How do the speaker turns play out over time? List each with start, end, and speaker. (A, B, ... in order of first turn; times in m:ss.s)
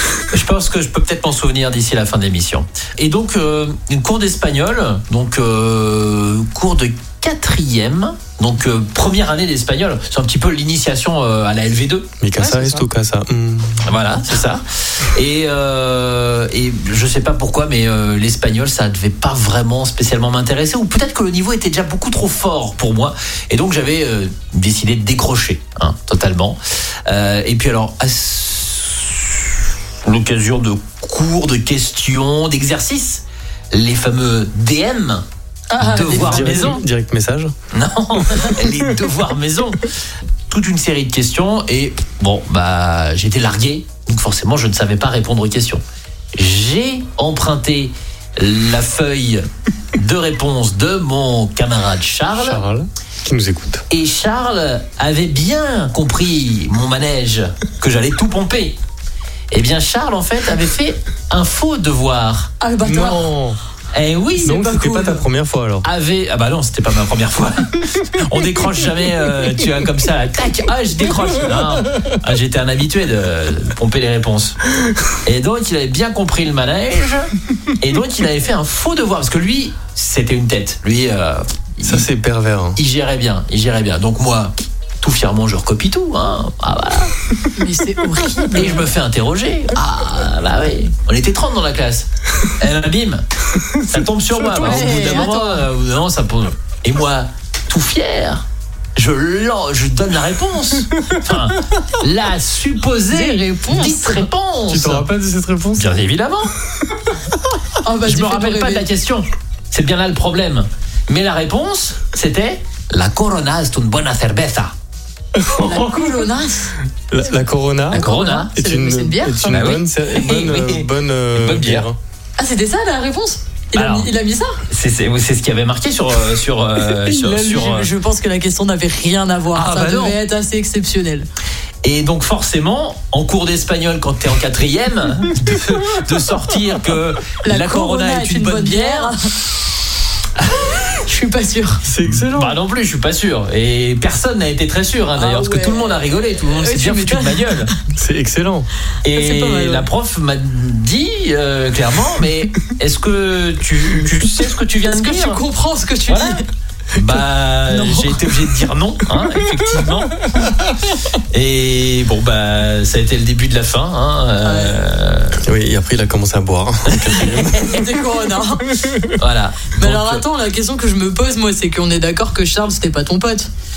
0:00.3-0:12.1 A
0:12.2-0:13.9 B
0:12.4-0:12.8 C
0:13.8-0:35.2 A
0:35.7-0:36.8 C
0:35.8-0:36.8 A
0:36.1-0:37.5 B
0:37.7-0:39.8 A
0:40.5-0:45.8 A
0:46.3-0:52.6 A
0:52.3-0:53.8 B
0:53.9-0:58.8 A
0:59.5-1:02.5 A
1:02.6-1:03.3 C
1:02.8-1:03.6 B
1:03.9-1:04.6 A
1:04.4-1:05.2 C
1:04.4-1:05.8 B
1:05.8-1:14.6 A
1:15.2-1:22.1 A
1:21.8-1:22.8 B
1:22.8-1:27.1 A
1:27.5-1:28.9 C
1:28.5-1:45.1 A
1:33.8-1:34.0 B
1:34.4-1:35.6 C
1:43.1-1:44.3 C
1:44.7-1:45.9 B
1:45.8-1:46.5 A
1:47.8-1:48.8 C
1:48.0-1:54.7 A
1:55.3-1:56.2 B
1:55.6-1:56.7 C
1:57.1-2:02.0 B
1:57.9-1:58.5 A
1:57.9-1:59.8 C
1:59.5-2:01.9 A
2:02.4-2:04.6 C
2:03.7-2:04.1 A
2:04.7-2:07.9 A
2:07.0-2:11.3 C
2:09.5-2:10.2 A
2:11.8-2:19.3 A
2:17.4-2:19.2 C
2:20.4-2:20.8 A
2:20.8-2:21.8 C
2:21.8-2:22.6 B
2:22.3-2:27.7 A
2:25.2-2:27.7 C
2:27.9-2:28.7 B
2:29.0-2:35.4 A
2:29.1-2:29.9 C
2:34.8-2:36.4 C
2:36.1-2:36.4 A
2:36.9-2:40.3 A
2:37.7-2:38.5 C
2:39.6-2:40.0 B
2:41.2-2:45.4 A
2:44.4-2:44.8 C
2:45.4-2:47.7 B
2:46.9-2:47.8 A
2:47.2-2:48.8 C
2:48.8-2:49.2 B
2:49.1-2:50.2 A
2:49.8-2:53.5 C